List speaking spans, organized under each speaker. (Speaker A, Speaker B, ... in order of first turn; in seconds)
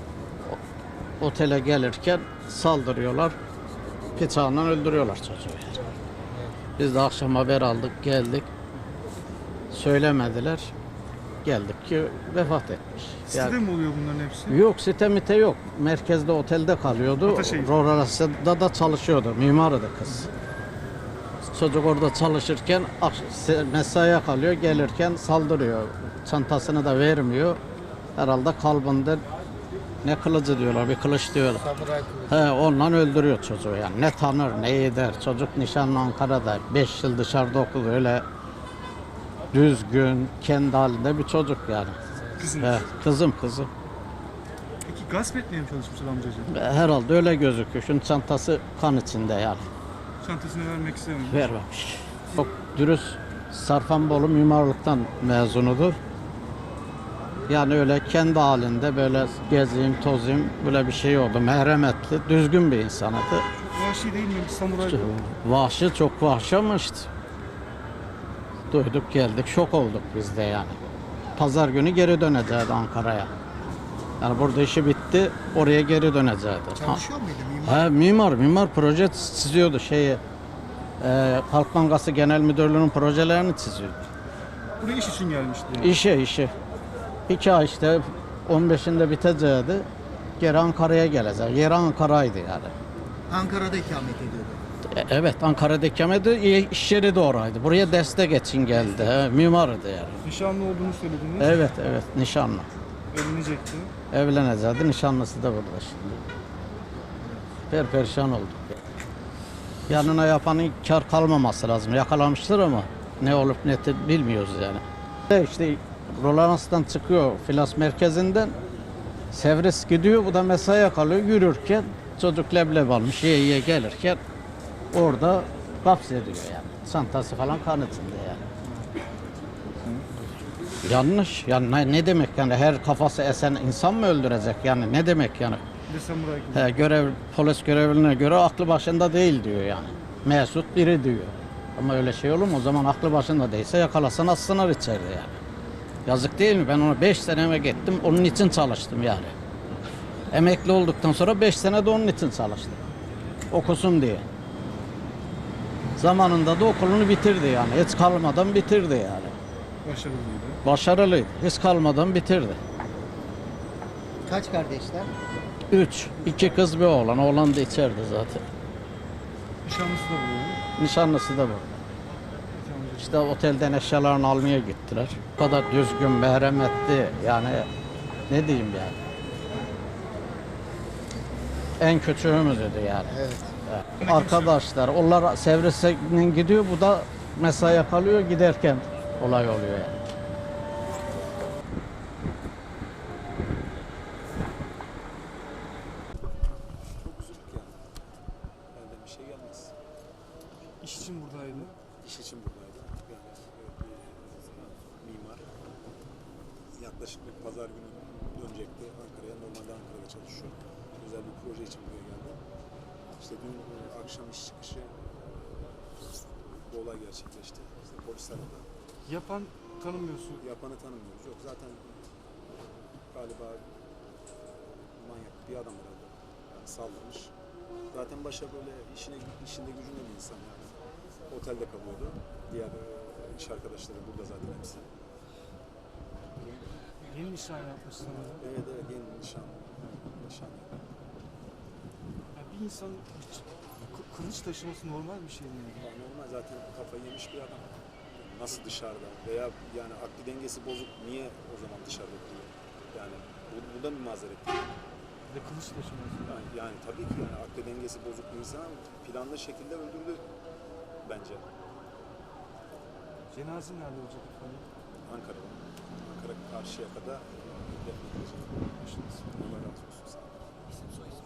Speaker A: 1.2-3.4, 4.1-5.8, 6.8-8.5, 9.7-10.7, 11.4-13.6, 14.5-20.3, 21.5-27.6, 28.1-29.2, 30.0-31.7, 32.3-38.2, 39.5-42.0, 42.6-43.7, 46.5-49.7, 51.3-56.0, 57.5-63.5, 64.8-67.1, 68.7-70.8, 71.3-73.3, 74.2-77.0, 77.6-80.2, 81.0-84.0, 85.8-86.5, 87.3-89.9, 90.4-92.7, 94.8-100.2, 101.4-102.7, 104.1-106.2, 107.7-108.8, 109.9-118.6, 119.3-124.2, 124.9-128.4, 130.8-135.6, 136.5-145.4, 146.1-149.3, 150.3-152.8, 153.5-154.2, 156.0-159.3, 160.6-162.6, 165.7-168.4, 170.8-171.8, 173.0-177.7, 178.3-179.0, 181.8-190.0
Speaker B: 13.3-14.6, 17.2-17.8, 42.3-42.8, 44.8-46.5, 50.2-51.5, 63.5-65.1, 84.8-86.0, 100.2-101.6, 103.1-103.9, 128.6-128.9, 129.8-130.1, 135.9-136.8, 159.8-160.6, 169.6-170.6, 172.6-173.2, 184.0-184.4, 200.8-201.8, 219.1-220.4, 237.0-238.4, 242.3-245.9, 255.3-256.4, 263.3-264.7, 268.9-269.2
Speaker C: 31.8-32.0, 76.8-77.8, 93.3-94.5, 164.2-165.1
Speaker D: 93.5-94.6, 164.4-165.1, 197.0-197.9, 198.7-199.8, 202.0-205.5, 206.7-212.4, 213.0-215.8, 216.3-218.7, 220.4-223.8, 224.4-227.3, 227.9-234.9, 236.4-236.7, 238.4-240.8, 245.8-254.7, 256.2-260.3, 261.0-261.5, 265.0-270.3